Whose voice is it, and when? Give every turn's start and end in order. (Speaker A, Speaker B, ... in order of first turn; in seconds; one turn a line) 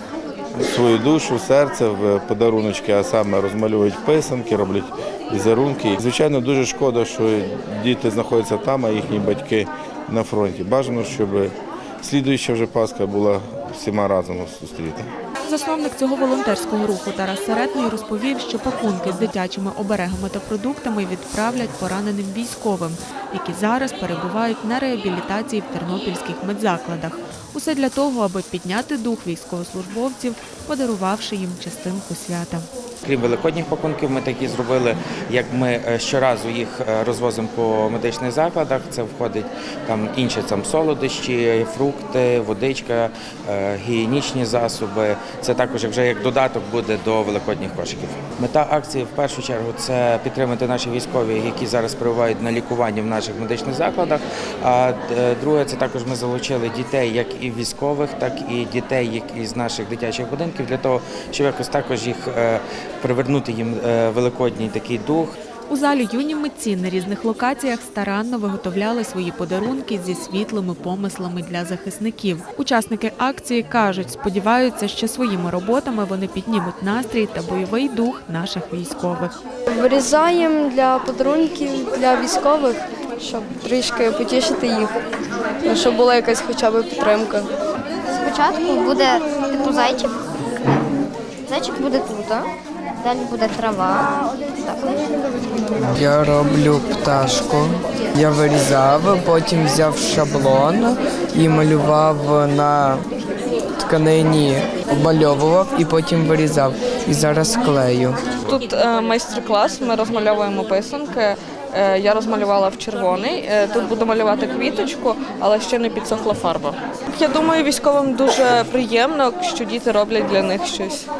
Speaker A: 0.6-15.0
Speaker B: 15.4-32.7
Speaker C: 33.0-65.3
Speaker B: 65.7-79.3
Speaker D: 79.7-84.9
Speaker D: 85.6-87.5
Speaker E: 88.2-90.1
Speaker E: 91.5-95.3
Speaker F: 95.8-103.0
Speaker F: 103.8-108.2
Speaker G: 108.4-121.1